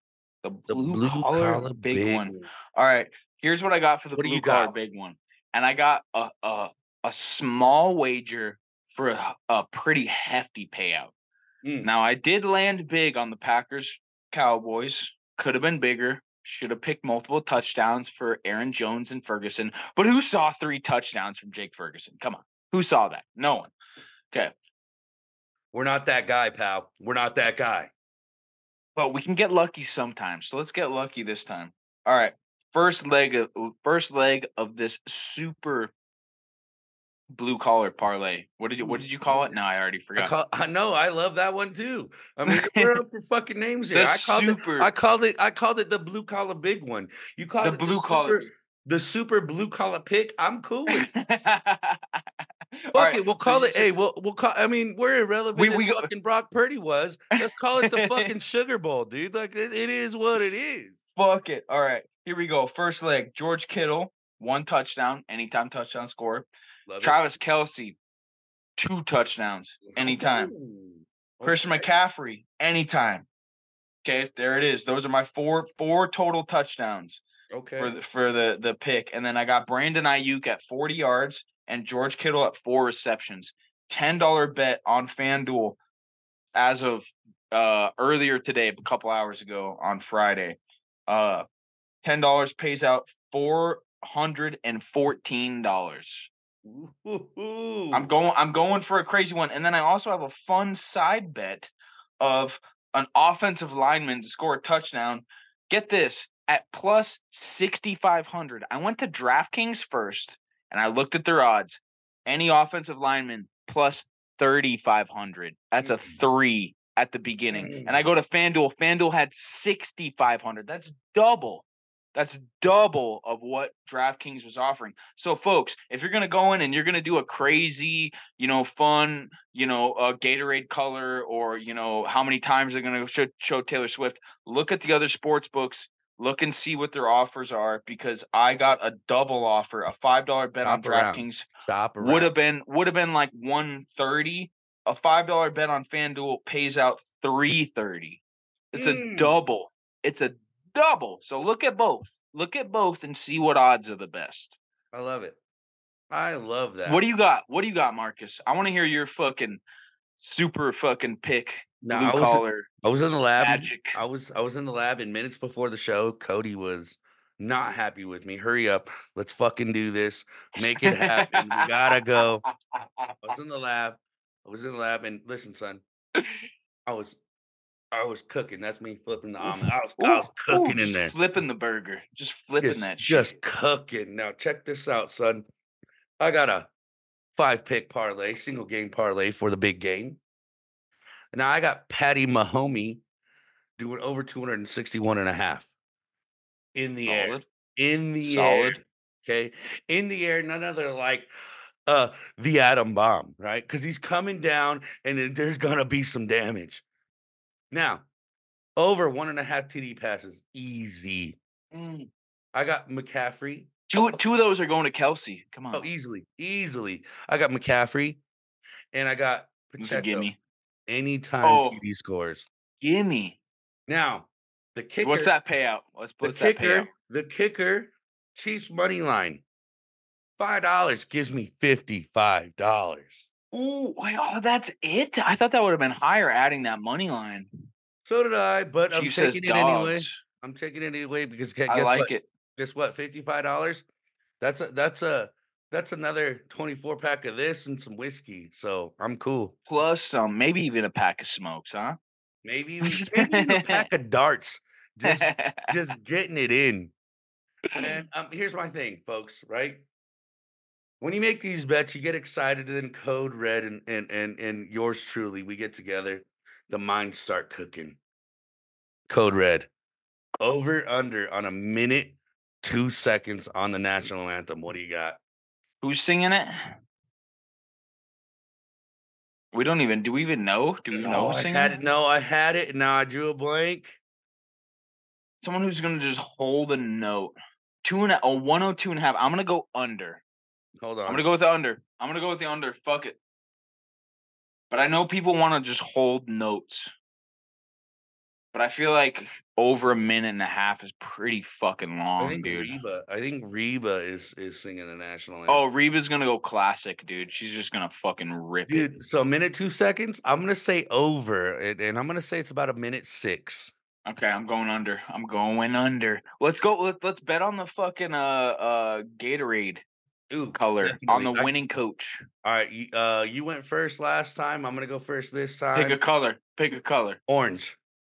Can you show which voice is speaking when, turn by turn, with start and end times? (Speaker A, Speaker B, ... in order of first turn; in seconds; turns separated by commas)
Speaker A: 0.4-11.1, Speaker B: 0.7-2.5, Speaker B: 4.2-4.7, Speaker B: 11.6-11.9, Speaker A: 11.8-23.7, Speaker B: 25.7-27.9, Speaker A: 29.0-35.9, Speaker A: 37.3-40.3, Speaker B: 38.8-39.6, Speaker B: 40.2-51.1, Speaker A: 42.5-42.9, Speaker A: 43.9-44.9, Speaker A: 47.6-48.5, Speaker A: 50.9-52.2, Speaker A: 52.9-53.9, Speaker B: 52.9-61.0, Speaker A: 55.5-56.1, Speaker A: 57.8-58.3, Speaker A: 61.2-66.5, Speaker B: 66.9-67.2, Speaker A: 67.0-68.0, Speaker A: 68.8-70.5, Speaker B: 69.9-72.0, Speaker A: 71.4-73.3, Speaker A: 74.0-77.2, Speaker B: 77.5-78.0, Speaker A: 77.8-85.8, Speaker A: 86.5-91.5, Speaker A: 92.0-96.3, Speaker B: 96.6-98.1, Speaker A: 97.9-141.5, Speaker B: 115.8-116.2, Speaker B: 117.5-118.1, Speaker B: 140.6-142.3, Speaker A: 142.0-154.6, Speaker B: 148.7-149.4, Speaker B: 154.9-155.4, Speaker B: 156.1-157.0, Speaker A: 156.8-159.6, Speaker A: 160.2-162.7, Speaker B: 161.8-172.4, Speaker A: 163.4-164.0, Speaker A: 170.6-171.9, Speaker A: 172.5-173.2, Speaker B: 173.2-175.8, Speaker A: 176.2-176.4, Speaker B: 176.9-177.2, Speaker B: 177.9-181.2, Speaker A: 179.4-183.3, Speaker B: 182.6-185.5, Speaker B: 186.2-186.7, Speaker B: 187.3-190.2, Speaker B: 191.3-193.0, Speaker B: 193.8-195.7, Speaker B: 196.8-201.3, Speaker A: 197.1-197.4, Speaker A: 198.2-198.8, Speaker B: 201.9-206.8, Speaker B: 207.7-208.1, Speaker B: 208.8-211.4, Speaker A: 211.7-212.1, Speaker B: 212.5-214.2, Speaker A: 213.9-215.9, Speaker B: 215.7-218.2, Speaker B: 218.9-220.3, Speaker A: 219.8-220.4, Speaker B: 220.9-222.5, Speaker A: 221.4-221.8, Speaker A: 222.8-223.4, Speaker B: 223.9-225.3, Speaker A: 225.0-226.9, Speaker B: 226.2-229.4, Speaker B: 230.4-234.0, Speaker A: 234.0-237.5, Speaker B: 238.1-243.9, Speaker A: 238.9-240.2, Speaker A: 241.7-242.2, Speaker B: 244.4-249.6, Speaker A: 249.7-252.0, Speaker B: 252.4-256.9, Speaker A: 252.9-253.9, Speaker A: 255.1-255.7, Speaker B: 257.8-259.9, Speaker B: 261.0-268.0, Speaker B: 269.1-269.7, Speaker B: 270.4-275.2, Speaker A: 275.8-276.8, Speaker A: 279.5-281.7, Speaker B: 281.0-284.0, Speaker A: 285.4-290.2, Speaker B: 290.8-291.3, Speaker A: 291.1-293.2, Speaker A: 294.7-296.9, Speaker A: 298.5-302.7, Speaker B: 302.2-305.6, Speaker A: 305.5-308.9, Speaker B: 308.7-313.7, Speaker A: 314.1-319.8, Speaker B: 320.3-321.5, Speaker A: 320.6-322.2, Speaker B: 322.4-326.0, Speaker A: 325.7-327.2, Speaker B: 327.3-327.8